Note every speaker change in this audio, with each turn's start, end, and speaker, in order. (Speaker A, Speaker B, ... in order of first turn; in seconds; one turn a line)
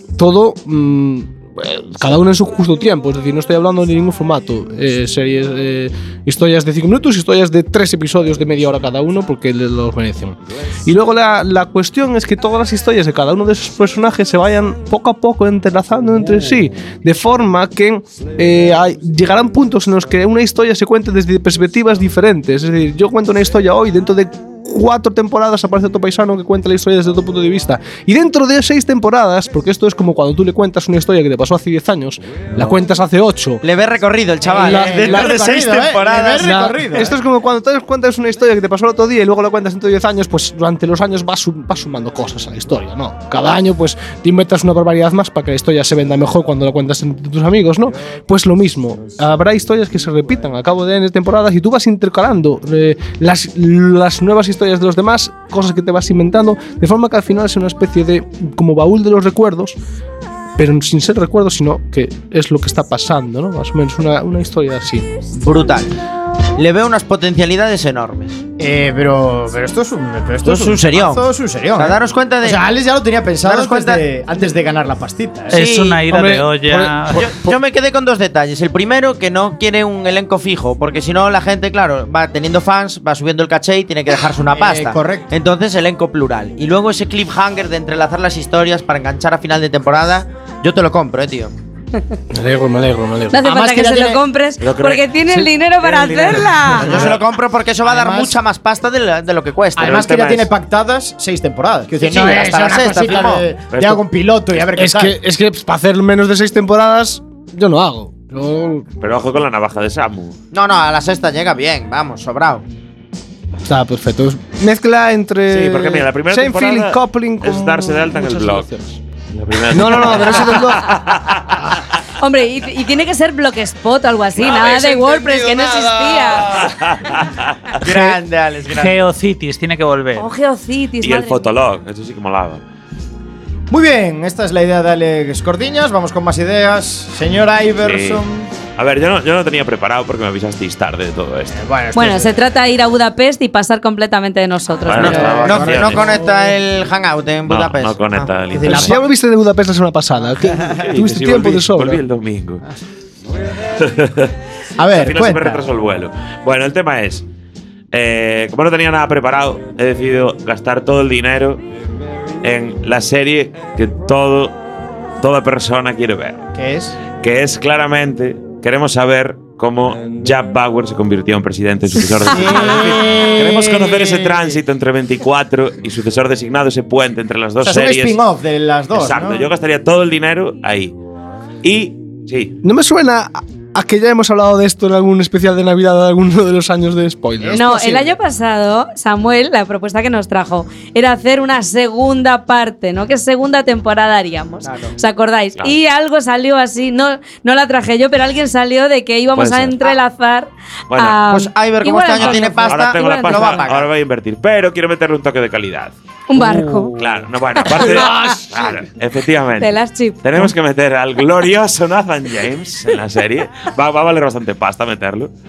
Speaker A: 0.2-33.6
Speaker B: 33.6-36.6
Speaker C: 34.5-37.2
Speaker A: 34.5-35.4
Speaker A: 36.4-59.8
Speaker A: 60.6-65.1
Speaker B: 65.3-65.9
Speaker B: 66.5-68.4
Speaker C: 68.6-75.6
Speaker B: 70.4-72.6
Speaker B: 73.4-74.0
Speaker D: 75.5-77.3
Speaker B: 75.5-76.1
Speaker A: 76.1-76.9
Speaker B: 76.7-91.5
Speaker C: 84.5-85.3
Speaker A: 92.3-93.4
Speaker E: 93.3-97.0
Speaker C: 93.4-94.2
Speaker F: 94.6-97.1
Speaker B: 96.8-100.1
Speaker C: 97.8-98.4
Speaker C: 99.8-105.2
Speaker F: 99.8-100.5
Speaker B: 102.0-103.5
Speaker F: 103.7-104.0
Speaker A: 104.7-108.9
Speaker F: 109.0-110.3
Speaker B: 110.5-112.6
Speaker A: 113.7-119.0
Speaker F: 115.5-118.7
Speaker F: 119.3-121.8
Speaker A: 119.7-121.1
Speaker E: 122.2-126.6
Speaker F: 126.5-127.7
Speaker B: 127.8-129.0
Speaker D: 128.7-130.3
Speaker E: 130.1-131.4
Speaker F: 131.0-132.6
Speaker C: 133.7-138.5
Speaker F: 137.8-138.2
Speaker F: 138.8-141.6
Speaker C: 141.6-142.3
Speaker E: 141.9-145.2
Speaker F: 144.9-146.1
Speaker C: 144.9-146.3
Speaker B: 144.9-149.0
Speaker F: 147.5-149.0
Speaker A: 148.6-152.0
Speaker F: 150.8-152.6
Speaker F: 153.8-154.3
Speaker C: 154.8-155.7
Speaker F: 154.9-157.2
Speaker F: 157.9-161.6
Speaker F: 162.4-164.5
Speaker F: 165.2-166.5
Speaker C: 166.5-166.9
Speaker F: 167.2-178.2
Speaker C: 172.2-174.6
Speaker C: 177.6-179.5
Speaker F: 178.9-180.9
Speaker F: 181.6-182.6
Speaker A: 182.6-187.7
Speaker C: 187.4-188.1
Speaker E: 187.5-203.7
Speaker B: 194.6-194.9
Speaker F: 199.3-199.9
Speaker F: 200.9-201.2
Speaker B: 201.3-203.9
Speaker F: 202.1-205.9
Speaker E: 206.3-206.9
Speaker F: 206.9-215.3
Speaker E: 207.6-208.3
Speaker A: 207.8-208.4
Speaker E: 209.6-210.5